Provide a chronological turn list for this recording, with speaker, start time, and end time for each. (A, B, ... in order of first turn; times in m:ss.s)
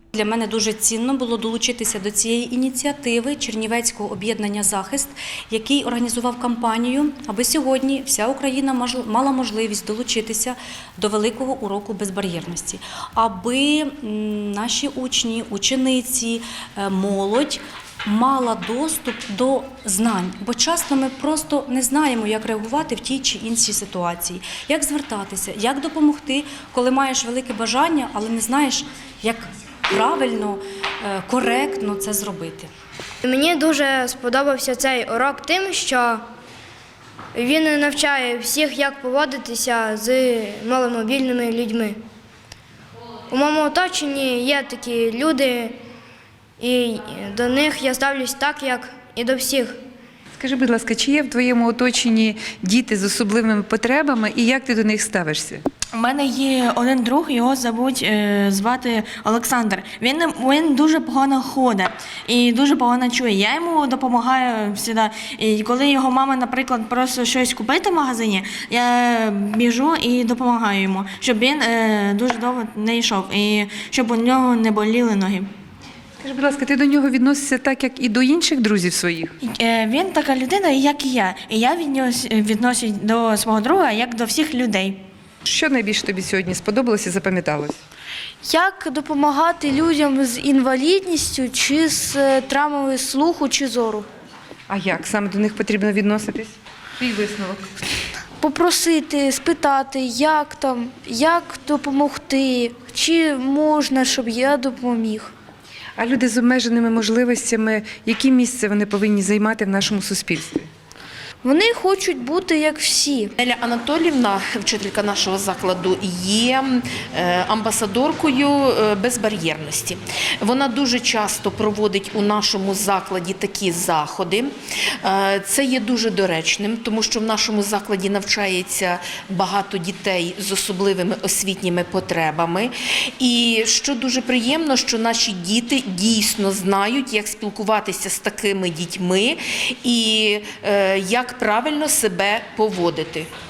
0:00.1-0:32.7 A
0:33.2-0:36.2 B
0:37.3-0:42.0 B
0:43.3-0:45.8 B
0:46.6-0:49.8 B
0:50.4-0:55.6 C
0:55.9-1:15.5 D
1:16.2-1:19.3 C
1:19.4-1:25.0 D
1:25.4-1:27.8 C
1:28.4-1:34.0 E
1:34.7-1:37.6 C
1:38.4-1:45.3 E
1:46.0-1:50.7 C
1:51.4-1:53.3 E
1:53.4-2:23.3 F